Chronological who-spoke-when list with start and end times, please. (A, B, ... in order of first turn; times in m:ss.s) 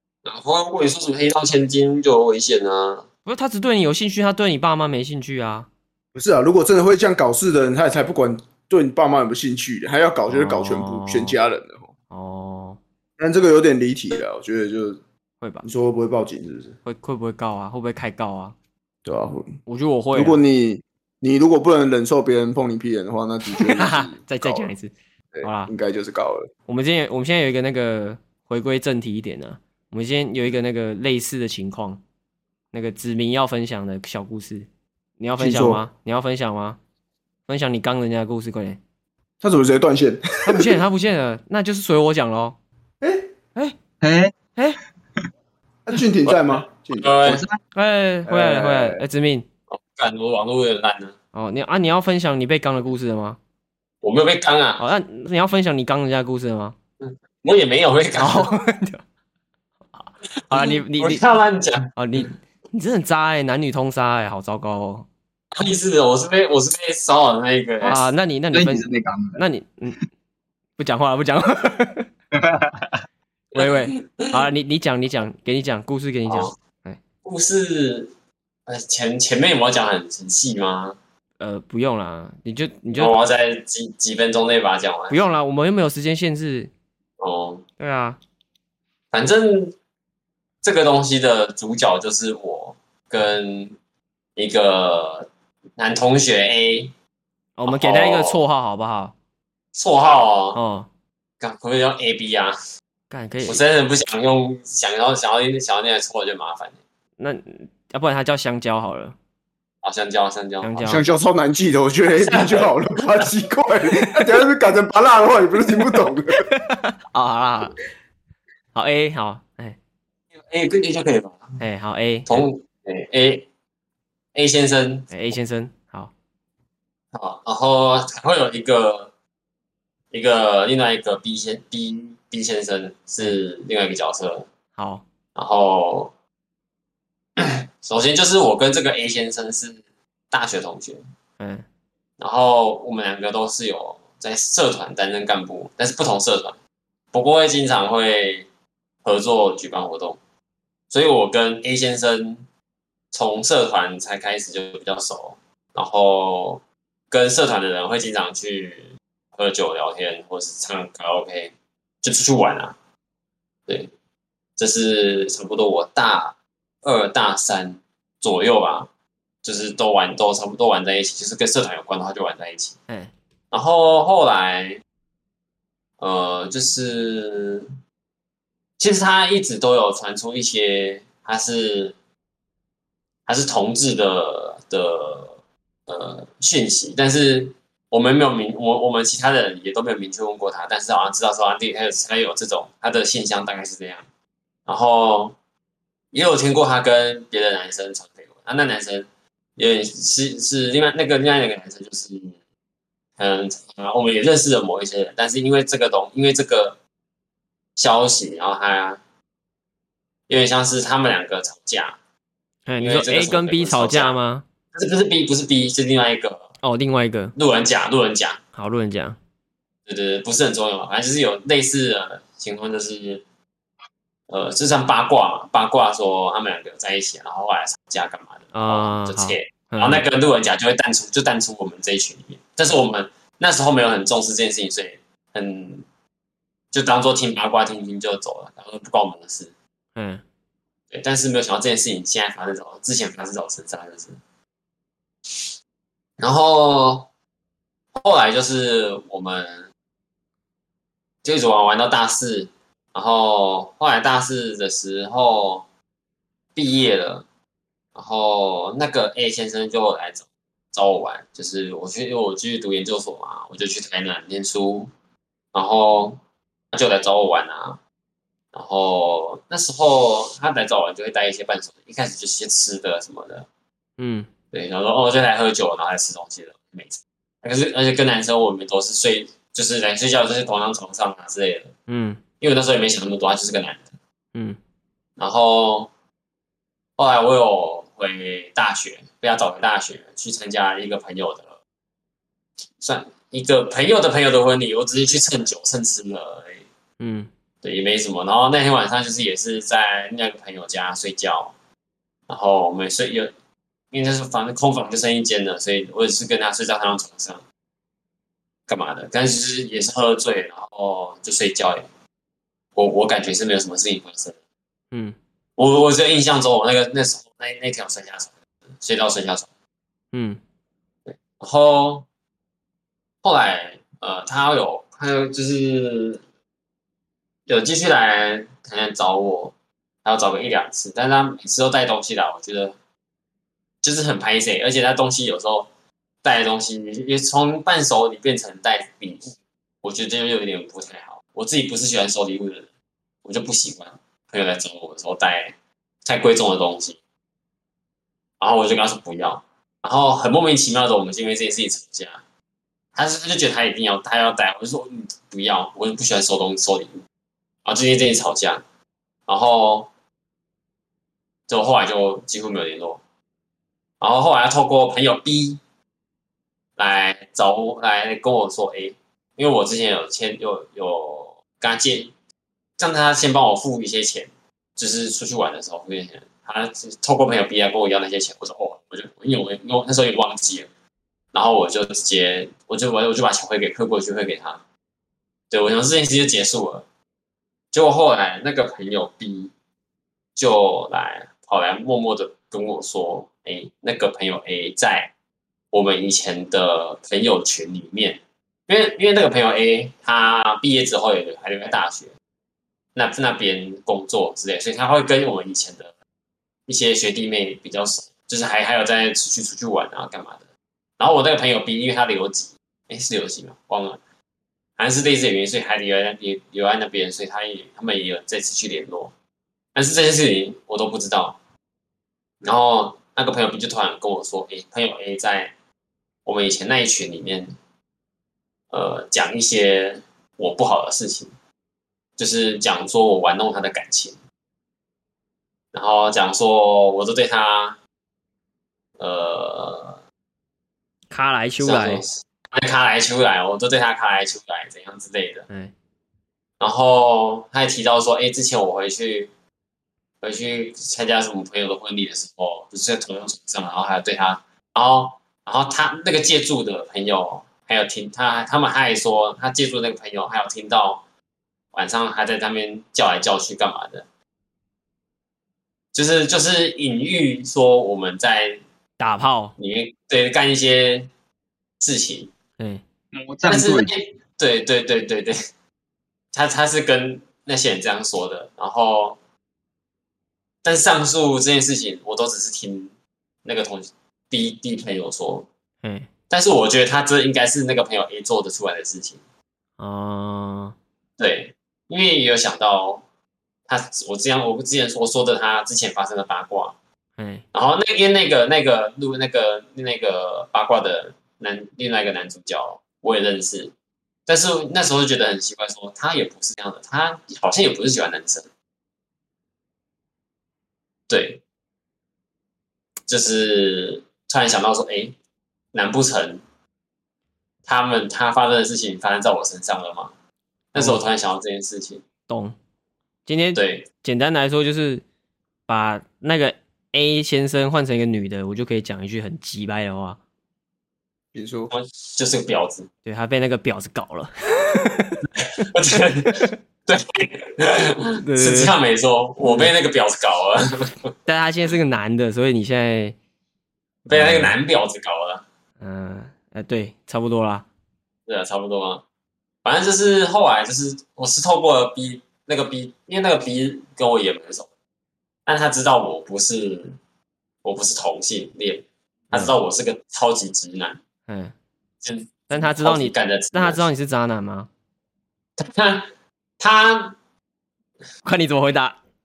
0:00.2-0:03.0 A
0:03.2-0:05.7 B
0:06.1-0:11.9 C
0:10.3-0:11.4 B
0:12.1-0:12.8 B
0:13.2-0:15.0 C
0:15.4-0:15.7 B
0:15.6-0:16.8 C
0:16.8-0:18.5 B
0:19.0-0:19.5 C
0:19.7-0:20.4 B
0:20.1-0:24.7 C
0:23.6-0:25.7 B
0:25.3-0:26.5 C
0:26.7-0:32.0 B
0:32.7-0:34.7 B
0:35.2-0:36.8 B
0:35.4-0:35.8 C
0:37.5-0:38.8 B
0:39.4-0:40.7 C
0:40.4-0:42.6 B
0:43.0-0:43.3 C
0:44.0-0:44.4 D
0:45.8-0:47.2 C
0:46.3-0:47.4 A
0:47.2-0:47.6 D
0:47.7-0:49.4 B
0:48.2-0:49.0 C
0:49.7-0:51.1 A
0:51.3-0:53.4 B
0:54.0-0:54.8 A
0:54.8-0:56.7 B
0:57.0-0:58.5 A
0:58.2-0:59.0 B
0:59.9-1:01.2 B
1:00.5-1:01.9 A
1:02.0-1:05.1 B
1:05.5-1:08.0 A
1:07.8-1:10.0 B
1:08.5-1:09.4 D
1:10.8-1:12.1 B
1:12.4-1:13.0 D
1:13.5-1:17.0 B
1:13.5-1:14.4 A
1:16.3-1:16.5 A
1:17.2-1:18.1 A
1:18.7-1:21.0 A
1:21.4-1:23.1 B
1:22.9-1:25.2 A
1:25.1-1:26.7 B
1:27.2-1:27.6 A
1:27.8-1:28.2 B
1:29.1-1:29.7 A
1:30.6-1:33.8 A
1:34.4-1:36.9 A
1:37.6-1:39.1 B
1:37.7-1:38.4 A
1:39.7-1:40.6 A
1:40.5-1:40.9 B
1:41.4-1:42.6 A
1:43.1-1:43.6 B
1:43.4-1:46.8 A
1:47.2-1:49.2 B
1:49.8-1:50.7 A
1:50.6-1:51.0 B
1:50.8-1:56.4 C
1:52.2-1:53.3 A
1:56.4-1:57.8 B
1:58.7-1:59.8 B
2:00.5-2:01.5 A
2:01.6-2:02.4 B
2:02.3-2:03.5 A
2:04.3-2:05.1 A
2:05.1-2:06.1 B
2:07.1-2:09.1 A
2:10.1-2:14.5 A
2:14.8-2:15.0 B
2:15.3-2:16.1 A
2:17.4-2:19.8 A
2:20.3-2:21.0 A
2:21.4-2:21.6 B
2:22.2-2:26.6 A
2:27.1-2:28.5 A
2:29.0-2:30.2 A
2:30.9-2:32.4 A
2:33.1-2:42.7 A
2:43.7-2:43.9 A
2:44.6-2:48.9 A
2:49.4-2:52.8 A
2:52.9-2:53.1 B
2:53.5-2:54.8 A
2:56.0-2:57.7 A
2:58.8-3:01.9 A
3:03.3-3:14.0 A
3:14.7-3:15.4 A
3:16.1-3:22.3 A
3:23.2-3:26.8 A
3:27.8-3:29.0 A
3:30.3-3:32.0 A
3:32.7-3:34.4 B
3:32.8-3:34.2 A
3:34.7-3:36.5 A
3:36.6-3:37.3 B
3:37.4-3:38.4 A
3:38.5-3:39.2 B
3:39.8-3:43.2 A
3:44.3-3:55.8 A
3:48.5-3:50.0 B
3:56.7-3:59.5 A
4:00.0-4:00.2 B
4:00.9-4:04.2 A
4:06.2-4:07.1 A
4:07.9-4:09.7 A
4:11.2-4:15.6 A
4:16.5-4:17.2 A
4:17.9-4:24.9 A
4:25.5-4:26.2 A
4:26.7-4:27.8 A
4:28.5-4:33.5 A
4:34.0-4:34.3 B
4:34.5-4:41.7 A
4:41.9-4:42.2 B
4:42.4-4:43.9 A
4:45.2-4:45.9 A
4:47.0-4:51.6 A
4:52.8-4:56.7 A
4:57.0-4:57.3 B
4:57.6-5:01.5 A
5:02.3-5:03.3 A
5:03.9-5:07.4 A
5:08.7-5:11.9 A
5:12.8-5:14.4 A
5:15.6-5:19.5 A
5:20.1-5:20.4 B
5:21.1-5:22.0 A
5:23.2-5:26.2 A
5:27.5-5:29.5 A
5:30.0-5:32.7 A
5:33.8-5:35.7 A
5:36.2-5:42.7 A
5:43.2-5:47.0 A
5:48.4-5:52.2 A
5:52.9-5:57.0 A
5:57.6-5:58.6 A
5:59.3-5:59.9 A
6:01.5-6:03.0 A
6:04.0-6:05.6 A
6:06.8-6:12.1 A
6:12.8-6:20.7 A
6:21.3-6:24.6 A
6:25.5-6:26.8 A
6:27.7-6:29.5 A
6:30.4-6:35.1 A
6:35.7-6:42.1 A
6:42.9-6:45.9 A
6:46.7-6:50.4 A
6:51.0-6:54.0 A
6:54.8-6:59.1 A
6:59.7-7:01.4 A
7:02.4-7:05.5 A
7:06.2-7:07.5 A
7:08.7-7:11.3 A
7:12.2-7:14.2 A
7:15.7-7:17.8 A
7:19.0-7:20.0 A
7:21.1-7:22.0 B
7:21.6-7:25.4 A
7:26.6-7:29.3 A
7:30.2-7:41.0 A
7:41.7-7:44.0 A
7:45.9-7:48.6 A
7:49.0-7:49.5 B
7:49.6-7:51.1 A
7:51.8-7:52.3 A
7:52.6-7:52.8 B
7:53.1-7:53.9 D
7:53.4-7:55.4 A
7:56.3-7:59.2 A
8:00.6-8:02.9 A
8:03.4-8:05.5 A
8:05.8-8:06.1 B
8:06.3-8:09.2 A
8:09.8-8:10.8 B
8:11.2-8:13.0 A
8:13.7-8:16.8 A
8:17.2-8:17.4 B
8:17.5-8:23.7 A
8:24.3-8:28.5 A
8:31.1-8:31.4 A
8:33.1-8:35.1 A
8:35.7-8:36.4 A
8:37.6-8:40.1 A
8:40.7-8:42.0 A
8:40.7-8:41.0 B
8:42.3-8:42.6 B
8:43.2-8:45.0 B
8:43.6-8:43.8 A
8:45.7-8:50.2 B
8:51.3-8:51.7 C
8:51.7-8:52.9 A
8:53.0-8:55.2 B
8:55.4-9:01.1 A
8:58.2-8:58.7 B
8:59.4-8:59.7 B
9:01.2-9:03.2 B
9:04.0-9:05.4 A
9:04.1-9:04.6 B
9:05.8-9:07.7 B
9:08.3-9:09.0 A
9:09.6-9:14.7 A
9:15.4-9:17.0 A
9:17.6-9:21.0 A
9:21.3-9:21.5 B
9:22.0-9:23.8 A
9:22.5-9:24.7 B
9:25.6-9:27.2 A
9:28.2-9:29.0 B